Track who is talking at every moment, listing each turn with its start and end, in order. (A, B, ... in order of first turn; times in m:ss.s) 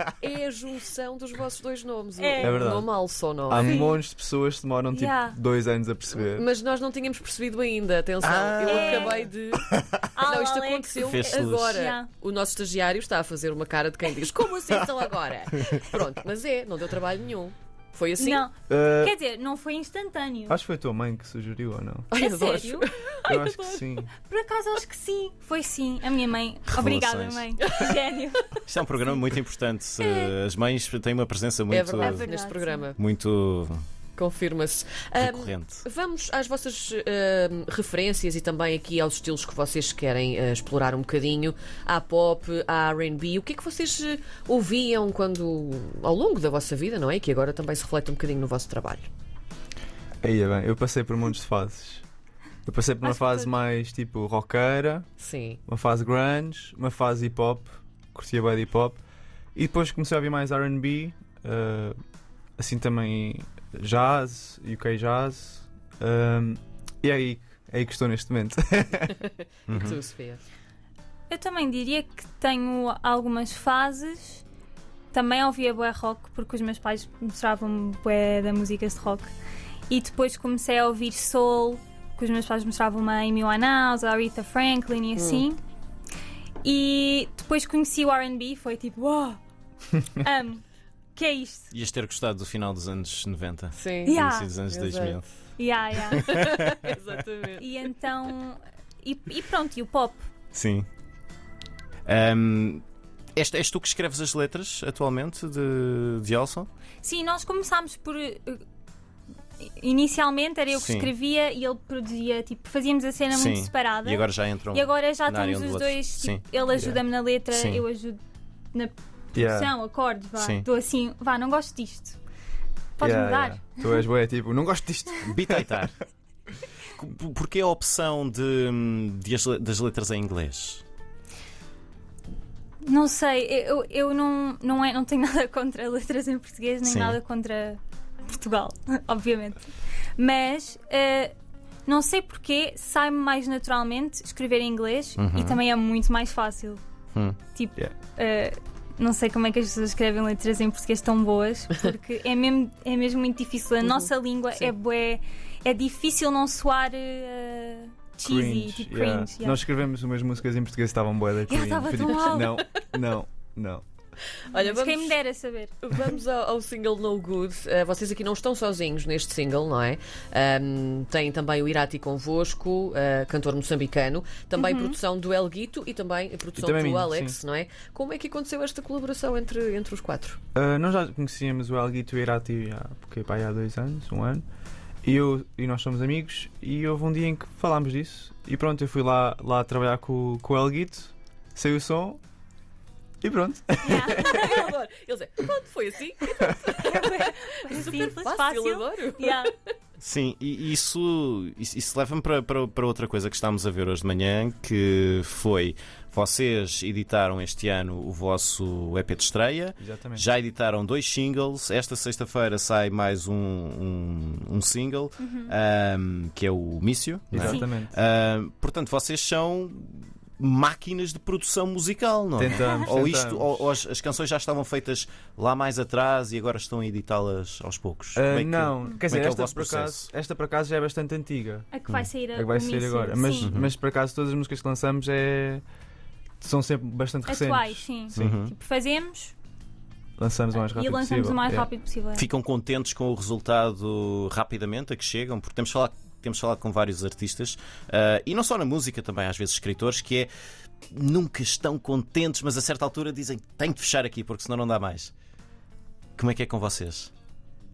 0:00.2-0:03.9 A
0:02.2-0:02.6 B
0:02.4-0:06.5 C
0:03.6-0:04.0 B
0:04.9-0:05.4 B
0:06.1-0:18.4 A
0:08.2-0:09.2 D
0:08.6-0:09.2 B
0:10.1-0:12.1 B
0:11.0-0:11.8 D
0:18.2-0:20.6 B
0:18.7-0:19.1 C
0:20.5-0:22.1 C
0:22.1-0:23.8 A
0:22.2-0:22.9 B
0:23.3-0:24.1 C
0:24.1-0:28.6 B
0:26.7-0:27.6 D
0:28.7-0:32.3 D
0:30.0-0:30.3 B
0:31.7-0:33.0 A
0:32.0-0:32.9 B
0:33.0-0:33.8 D
0:34.2-0:49.1 A
0:35.2-0:35.8 D
0:50.2-0:52.0 C
0:52.6-0:55.1 C
0:53.0-0:53.6 B
0:55.2-0:55.6 A
0:55.7-0:59.0 C
0:59.5-1:02.0 C
1:02.6-1:09.2 C
1:09.2-1:10.4 A
1:09.7-1:10.0 D
1:11.3-1:14.4 B
1:15.1-1:19.3 B
1:19.9-1:25.6 B
1:25.2-1:25.4 A
1:26.6-1:29.4 B
1:30.2-1:30.6 B
1:31.2-1:31.7 B
1:31.7-1:35.2 D
1:33.7-1:35.2 A
1:34.1-1:34.5 B
1:35.6-1:36.4 B
1:36.2-1:36.8 D
1:36.2-1:37.6 A
1:37.6-1:40.2 B
1:40.5-1:40.9 D
1:42.0-1:42.8 D
1:43.4-1:46.7 D
1:47.0-1:48.6 B
1:49.6-1:58.2 B
1:50.7-1:51.1 D
1:53.3-1:56.4 D
1:56.7-1:57.0 C
1:57.5-1:57.8 D
1:58.7-2:02.2 B
1:59.3-1:59.7 C
2:00.4-2:00.6 D
2:03.0-2:04.0 B
2:03.0-2:05.8 C
2:05.2-2:06.0 D
2:06.9-2:10.8 D
2:12.8-2:19.6 B
2:16.8-2:17.2 D
2:20.2-2:21.3 B
2:21.8-2:26.8 B
2:25.2-2:25.6 D
2:27.5-2:39.6 B
2:33.8-2:34.1 A
2:38.2-2:43.8 C
2:41.5-2:42.6 B
2:44.5-2:45.2 A
2:44.5-2:45.7 B
2:45.8-3:00.4 A
2:54.6-2:55.0 B
2:56.6-2:57.4 C
3:00.5-3:04.4 C
3:05.0-3:12.2 C
3:13.2-3:14.2 C
3:13.8-3:14.7 B
3:14.0-3:19.5 A
3:16.7-3:19.5 B
3:20.0-3:50.1 D
3:29.8-3:30.2 C
3:35.2-3:35.5 B
3:37.3-3:38.0 C
3:37.4-3:37.7 B
3:42.4-3:43.6 C
3:42.5-3:42.9 B
3:48.1-3:51.7 C
3:51.7-3:53.5 B
3:52.3-3:55.6 C
3:53.4-3:53.7 D
3:56.4-3:58.4 C
3:57.2-3:59.3 B
3:58.2-3:58.5 D
4:00.2-4:01.7 C
4:00.5-4:02.3 B
4:02.2-4:10.3 D
4:10.9-4:15.1 D
4:16.2-4:17.1 D